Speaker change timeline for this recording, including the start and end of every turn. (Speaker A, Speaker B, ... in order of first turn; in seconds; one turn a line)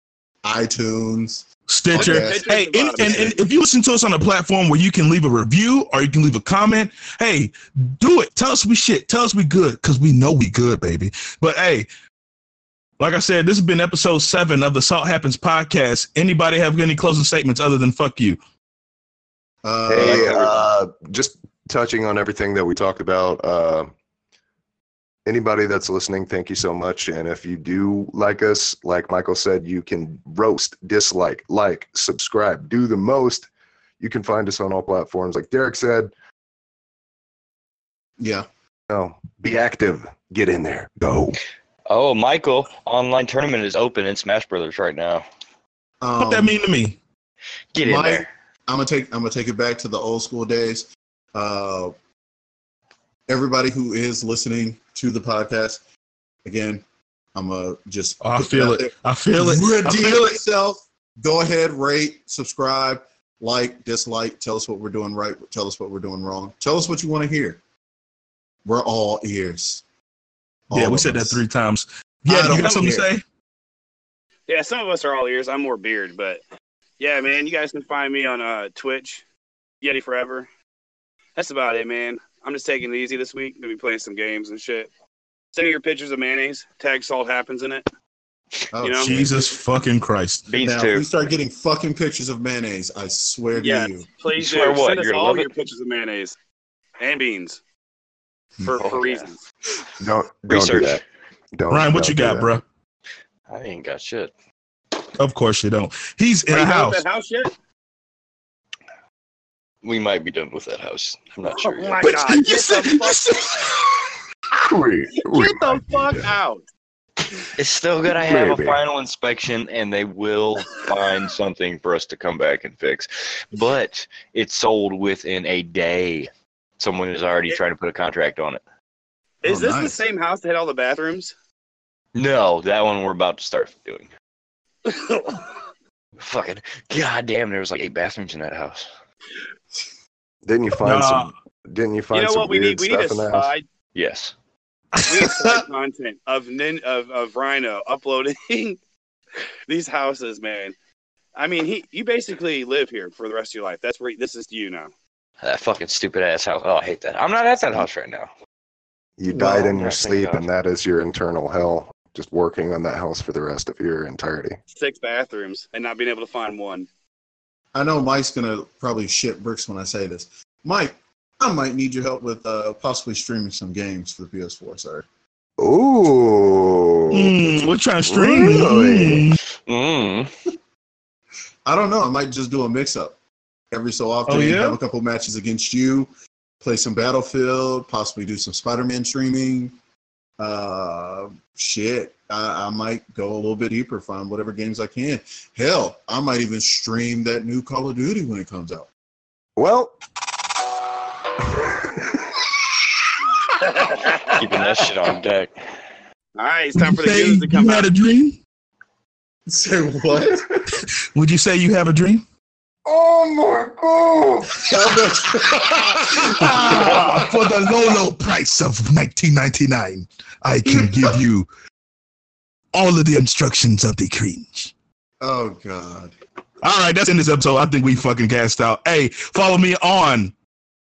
Speaker A: 0.4-3.4
Speaker B: 1.7-11.9
Speaker C: 1.9-3.3
Speaker B: 13.0-18.4
Speaker A: 19.6-20.4
Speaker D: 19.9-23.9
Speaker E: 19.9-20.6
Speaker D: 25.2-33.5
Speaker D: 34.0-36.1
Speaker A: 38.2-38.5
Speaker D: 38.9-41.4
Speaker E: 41.9-45.2
Speaker A: 46.0-46.6
Speaker B: 46.2-47.0
Speaker E: 47.7-48.3
Speaker A: 47.8-51.9
Speaker A: 53.3-55.8
Speaker A: 56.4-56.8
Speaker A: 57.3-67.6
Speaker B: 58.2-60.4
Speaker A: 68.6-69.8
Speaker A: 70.7-71.4
Speaker B: 70.7-73.2
Speaker A: 72.3-73.1
Speaker C: 72.5-72.8
Speaker C: 74.5-76.4
Speaker C: 77.0-79.2
Speaker C: 79.8-80.5
Speaker C: 81.4-84.9
Speaker C: 85.5-87.9
Speaker A: 88.7-89.5
Speaker C: 88.8-89.1
Speaker B: 89.0-90.5
Speaker E: 90.5-91.1
Speaker A: 90.6-94.1
Speaker C: 93.5-96.3
Speaker E: 94.3-95.5
Speaker C: 97.0-97.6
Speaker A: 98.6-98.9
Speaker C: 98.6-99.4
Speaker E: 98.7-99.3
Speaker D: 100.0-101.0
Speaker E: 100.5-101.0
Speaker D: 101.5-102.5
Speaker B: 101.7-102.6
Speaker E: 103.5-104.3
Speaker B: 105.2-107.0
Speaker C: 106.5-107.5
Speaker E: 109.8-112.1
Speaker C: 111.5-113.2
Speaker B: 112.0-114.0
Speaker D: 114.6-116.3
Speaker C: 115.1-116.6
Speaker E: 117.5-128.6
Speaker D: 118.1-118.8
Speaker C: 129.4-131.3
Speaker A: 129.4-130.0
Speaker E: 132.1-134.1
Speaker C: 134.8-135.5
Speaker E: 136.2-138.9
Speaker D: 140.4-143.5
Speaker B: 140.8-141.3
Speaker C: 142.1-143.6
Speaker E: 143.9-144.3
Speaker B: 144.9-145.6
Speaker C: 145.1-148.8
Speaker C: 149.7-150.7
Speaker C: 151.3-154.9
Speaker E: 155.4-158.3
Speaker D: 159.2-164.6
Speaker E: 159.3-160.5
Speaker C: 164.7-166.9
Speaker A: 167.7-175.1
Speaker D: 175.6-177.5
Speaker B: 177.1-179.4
Speaker D: 178.1-179.3
Speaker E: 179.7-180.3
Speaker A: 181.7-183.2
Speaker A: 183.7-186.1
Speaker B: 184.3-184.8
Speaker A: 186.6-189.7
Speaker A: 190.4-198.9
Speaker D: 199.6-199.9
Speaker D: 201.5-202.1
Speaker C: 203.6-204.5
Speaker E: 204.3-205.5
Speaker C: 206.3-207.9
Speaker B: 206.8-208.4
Speaker A: 209.4-210.6
Speaker B: 210.7-212.2
Speaker D: 212.8-215.0
Speaker A: 214.7-217.3
Speaker B: 215.4-221.5
Speaker B: 222.7-224.7
Speaker A: 225.2-226.1
Speaker B: 226.6-230.3